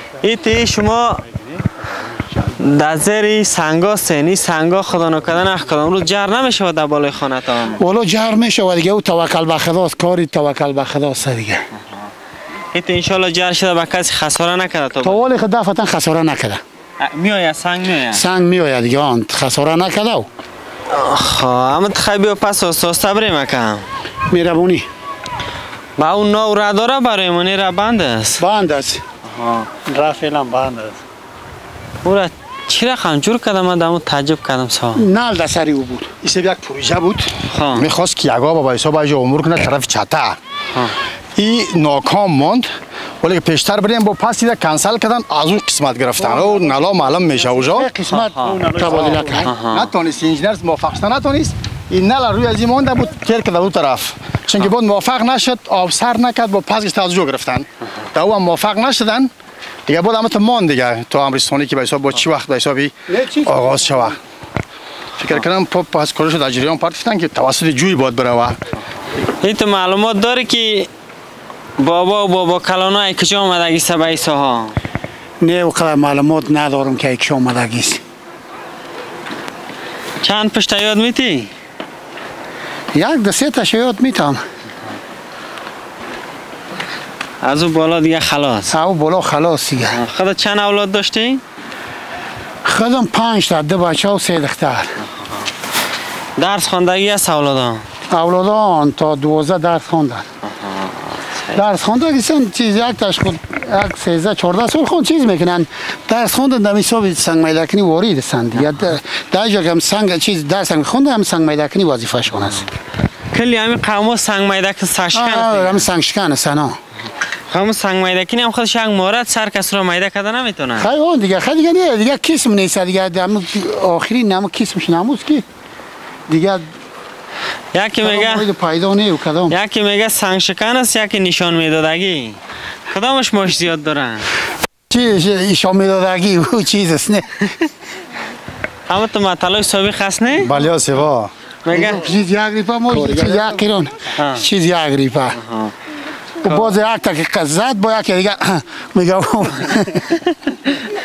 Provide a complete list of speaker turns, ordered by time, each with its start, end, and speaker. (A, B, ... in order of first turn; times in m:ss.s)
0:00.2-0:01.2 A
0:01.3-0:02.5 B
0:02.6-0:07.8 A
0:07.8-0:11.6 C
0:11.7-0:12.0 A
0:12.7-0:15.2 A
0:15.0-0:16.6 C
0:17.0-0:18.2 A
0:18.1-0:20.2 C
0:20.9-0:23.8 A
0:24.3-0:24.8 C
0:26.0-0:28.4 A
0:28.4-0:29.0 C
0:29.2-0:29.7 A
0:29.9-0:31.0 B
0:32.0-0:35.0 A
0:35.0-0:36.1 C
0:36.2-0:40.4 D
0:37.5-0:37.9 A
0:41.4-0:42.7 D
0:43.2-0:47.9 D
0:46.2-0:46.7 C
0:47.4-0:49.5 C
0:48.1-0:48.6 A
0:48.4-0:49.5 B
0:48.8-0:59.3 D
0:49.4-0:49.9 A
0:59.9-1:04.2 D
1:03.1-1:04.2 C
1:05.2-1:08.6 D
1:09.4-1:10.9 A
1:11.8-1:14.7 A
1:15.4-1:18.0 C
1:20.2-1:21.5 A
1:22.9-1:24.4 C
1:27.4-1:28.7 A
1:28.7-1:30.0 C
1:29.9-1:31.4 A
1:32.6-1:34.9 C
1:35.0-1:35.4 A
1:36.4-1:37.8 A
1:38.1-1:40.2 C
1:40.4-1:41.6 A
1:41.5-1:52.6 C
1:53.3-1:55.8 A
1:55.1-1:56.8 C
1:57.5-2:00.9 A
2:00.8-2:05.4 C
2:06.3-2:06.6 C
2:07.7-2:08.5 A
2:08.0-2:09.6 C
2:09.5-2:12.4 A
2:12.9-2:14.3 A
2:14.9-2:17.5 C
2:18.9-2:20.5 A
2:20.4-2:21.8 D
2:21.6-2:22.0 A
2:21.7-2:25.4 C
2:22.9-2:23.5 D
2:24.2-2:24.4 A
2:25.3-2:25.7 A
2:26.4-2:30.1 C
2:26.4-2:26.7 A